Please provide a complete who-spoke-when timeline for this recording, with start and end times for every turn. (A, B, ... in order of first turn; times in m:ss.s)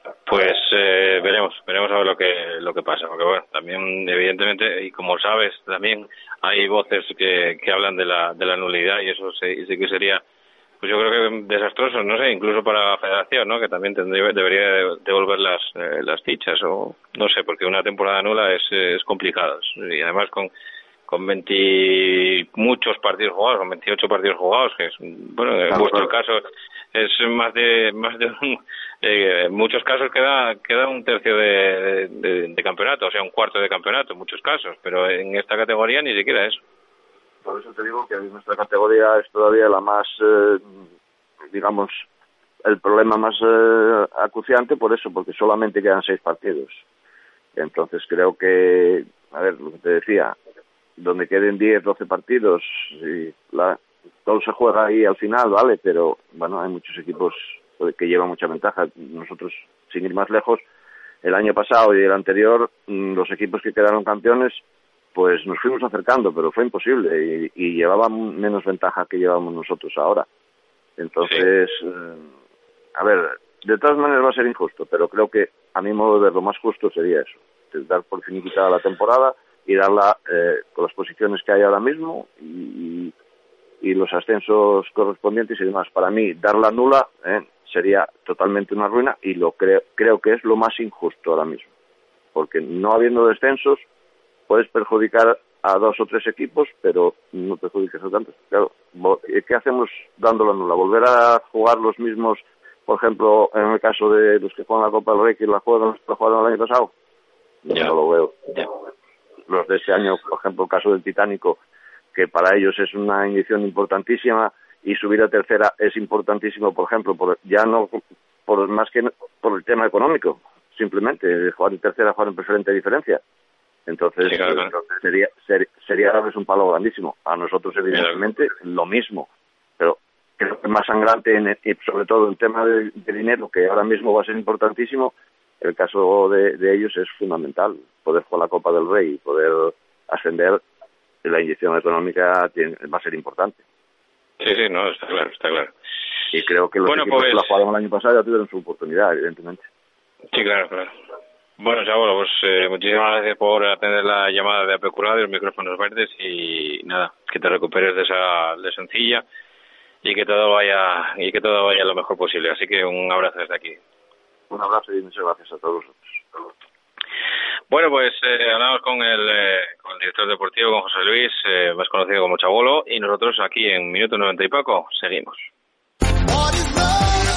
0:00.2-0:10.2 A
0:10.8-0:20.5 A
0:21.1-0:26.4 A
0:25.8-0:26.0 B
0:26.9-0:36.6 A
0:37.4-0:40.8 B
0:41.5-0:42.0 B
0:42.6-0:46.8 B
0:47.6-0:50.4 B
0:51.0-1:00.6 B
1:01.2-1:04.6 B
1:05.1-1:10.3 B
1:11.0-1:12.2 B
1:13.0-1:23.1 B
1:23.8-1:31.7 B
1:32.3-1:33.8 B
1:34.5-1:46.9 B
1:47.6-1:48.7 B
1:49.5-1:51.6 B
1:52.1-2:03.2 B
2:03.9-2:20.6 B
2:04.2-2:04.7 A
2:07.9-2:08.2 A
2:21.2-2:23.6 B
2:24.4-2:25.7 A
2:26.3-2:29.6 B
2:26.8-2:27.6 A
2:30.3-2:30.9 A
2:31.6-2:39.2 A
2:40.0-2:43.8 A
2:44.5-2:46.1 B
2:47.7-2:55.5 A